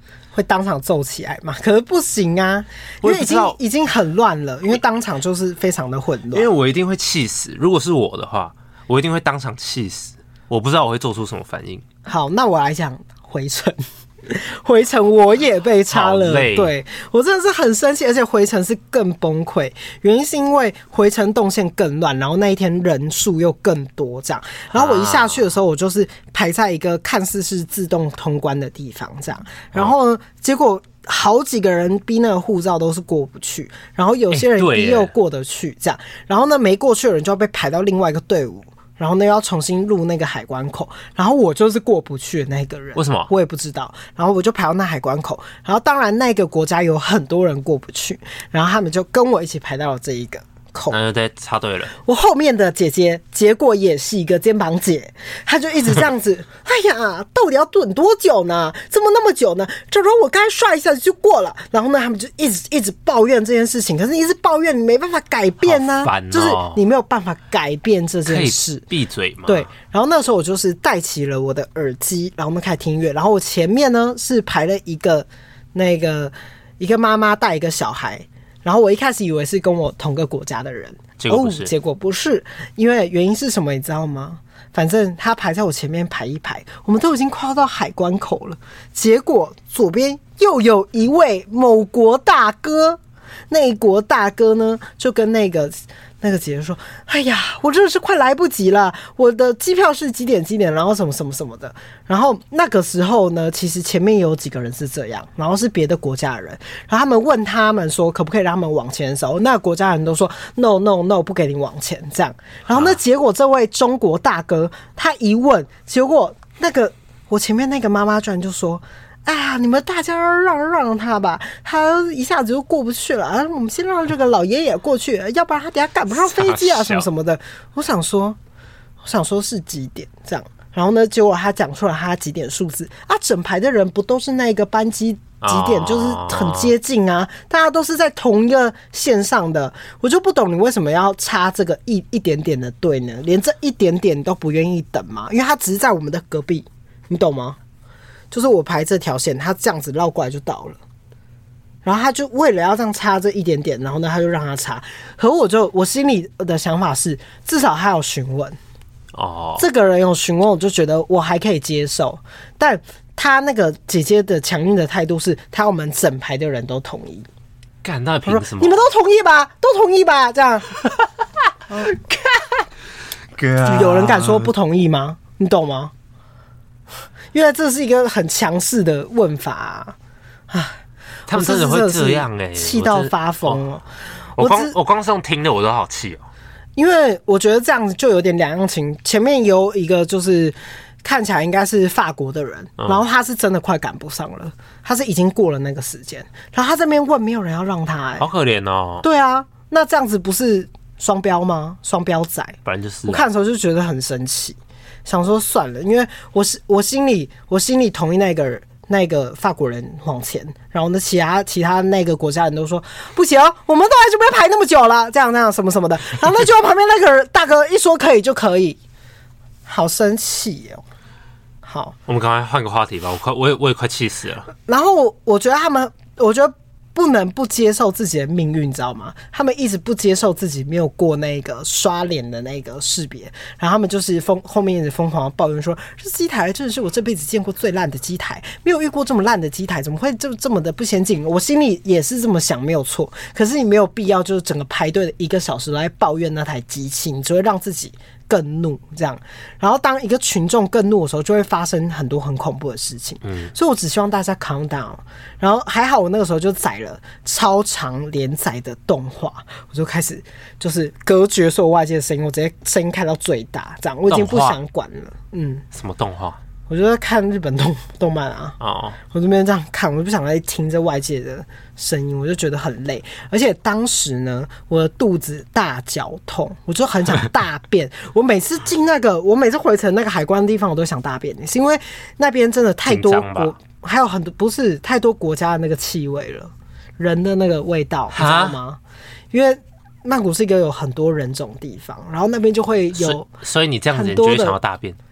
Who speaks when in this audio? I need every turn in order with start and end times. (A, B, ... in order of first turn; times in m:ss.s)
0:00.3-0:06.5 A
0:03.0-0:03.6 B
0:06.3-0:11.8 B
0:12.0-0:51.0 A
0:15.9-0:16.7 B
0:24.7-0:25.5 B
0:34.3-0:35.1 B
0:43.0-0:43.3 B
0:50.9-0:52.0 B
0:52.0-1:08.9 A
1:05.6-1:06.8 B
1:08.3-1:09.7 B
1:09.5-1:33.0 A
1:21.2-1:21.7 B
1:33.5-2:08.4 A
1:52.7-1:53.0 B
2:06.2-2:07.1 B
2:09.0-2:27.6 A
2:15.4-2:16.7 B
2:28.3-2:30.8 A
2:31.8-2:38.6 A
2:39.1-2:39.6 B
2:39.6-2:47.3 A
2:47.8-2:48.9 B
2:48.3-2:50.8 A
2:51.7-2:52.0 A
2:53.4-2:54.5 B
2:53.6-2:55.9 A
2:57.3-3:00.0 A
3:00.5-3:03.8 A
3:01.3-3:03.6 B
3:04.4-3:06.3 B
3:04.4-3:04.8 A
3:06.8-3:18.3 A
3:18.2-3:19.0 B
3:19.0-3:38.8 A
3:22.6-3:23.2 B
3:39.7-3:40.8 A
3:41.6-3:42.0 A
3:42.1-3:44.5 B
3:44.7-4:25.6 A
4:13.2-4:13.5 B
4:24.1-4:24.6 B
4:25.7-4:26.4 B
4:26.7-4:48.8 A
4:28.6-4:29.0 B
4:42.9-4:43.6 B
4:48.1-4:48.6 B
4:49.3-4:53.3 A
4:53.0-4:55.0 B
4:53.9-4:54.6 A